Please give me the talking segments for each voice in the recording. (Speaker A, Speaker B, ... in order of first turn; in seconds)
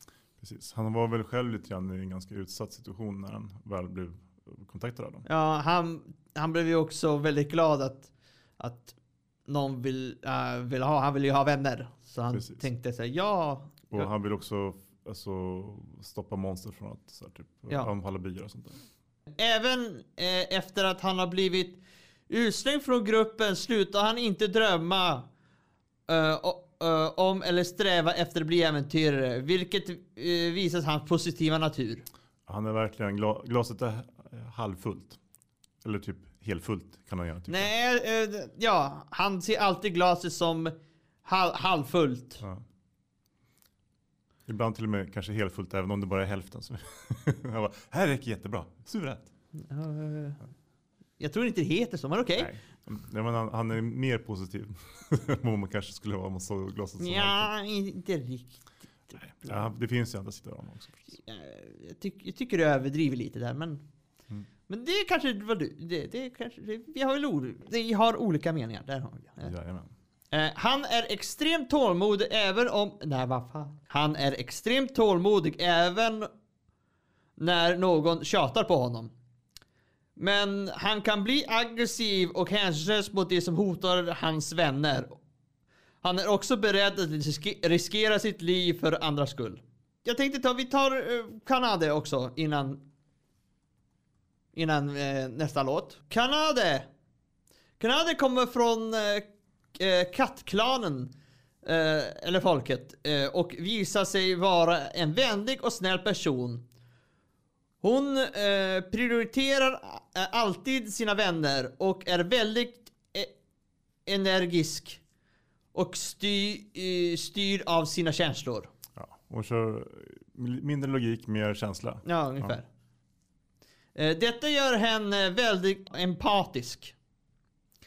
Speaker A: 0.4-5.2, 12.3-12.6, 13.9-18.8, 32.5-35.2, 35.8-37.7, 44.5-49.3, 52.4-57.5, 59.2-61.1, 69.4-69.9, 119.0-122.6
Speaker B: 5.2-8.9, 9.4-14.1, 19.4-25.3, 26.1-32.0, 37.5-42.4, 49.5-50.4, 51.2-52.5, 57.0-58.6, 61.2-63.8, 64.7-69.5, 70.3-76.3, 77.4-79.1, 80.2-85.2, 86.0-92.8, 94.5-96.9, 97.8-106.6, 107.8-113.3, 114.0-115.0, 115.7-118.7, 122.0-122.7, 123.9-126.9